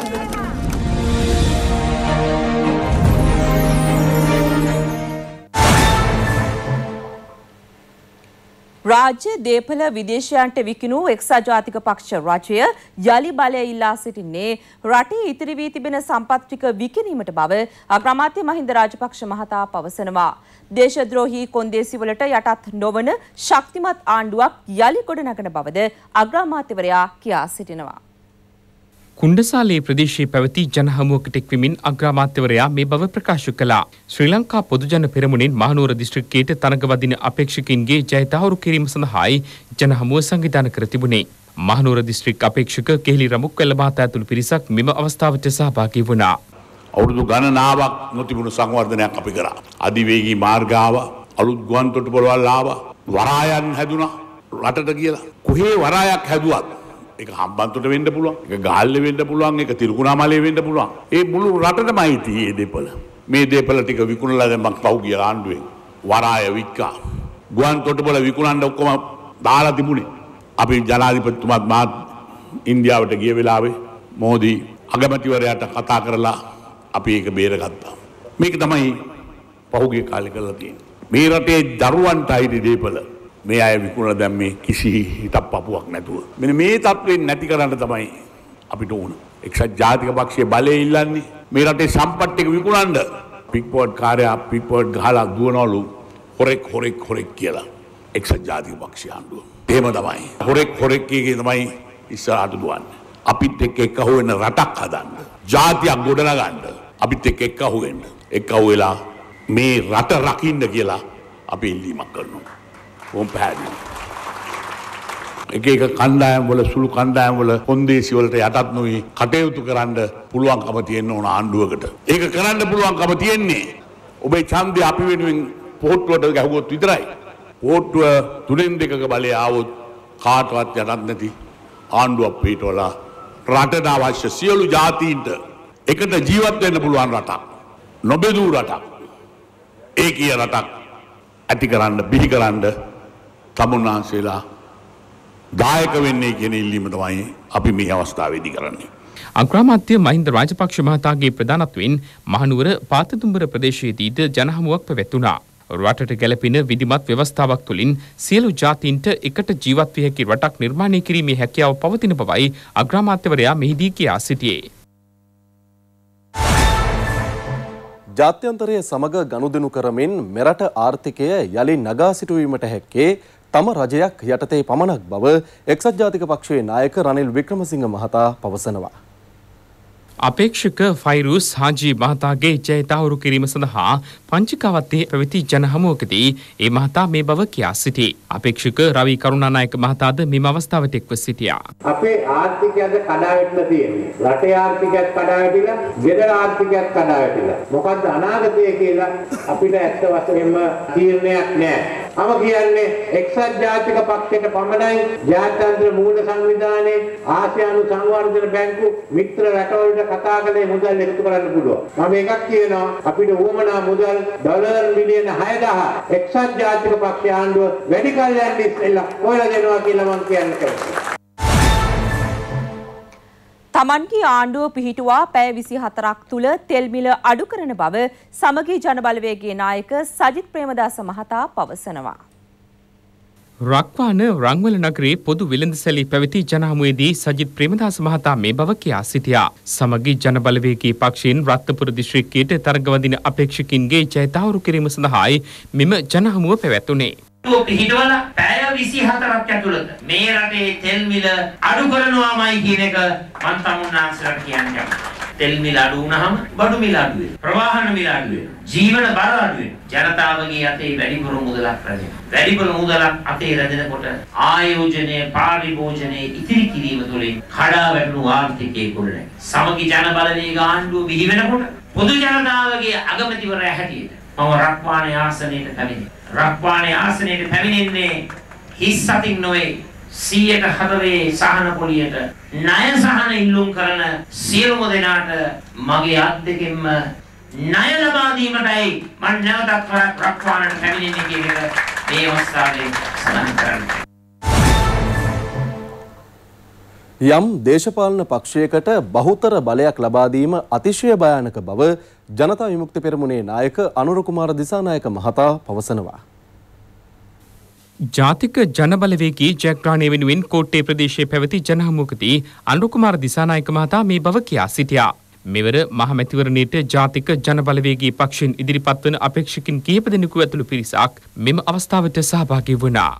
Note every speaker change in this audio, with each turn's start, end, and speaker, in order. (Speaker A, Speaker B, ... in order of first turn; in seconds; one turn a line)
Speaker A: 8.9-28.0
Speaker B: 29.2-46.3
Speaker C: 47.0-66.9
Speaker C: 67.5-71.9
Speaker C: 72.7-76.4
Speaker C: 76.9-78.9
Speaker C: 79.7-88.1
Speaker C: 88.7-109.0
Speaker C: 109.5-111.0
Speaker C: 111.5-112.5
Speaker C: 113.1-113.8
Speaker C: 115.5-123.6
Speaker C: 124.2-127.1
Speaker C: 127.6-129.7
Speaker C: 130.2-131.3
Speaker C: 131.9-132.9
Speaker C: 133.4-137.4
Speaker C: 138.1-139.0
Speaker C: 140.0-140.7
Speaker C: 141.5-142.7
Speaker C: 143.6-144.4
Speaker C: 145.6-148.9
Speaker B: 149.4-164.6
Speaker D: 168.2-178.9
Speaker B: 180.2-191.6
Speaker E: 191.9-221.0
Speaker A: 223.7-232.2
Speaker B: 233.7-247.1
Speaker F: 247.4-278.2
Speaker F: 278.8-287.0
Speaker F: 287.6-294.0
Speaker D: 297.3-306.2
Speaker B: 308.1-323.1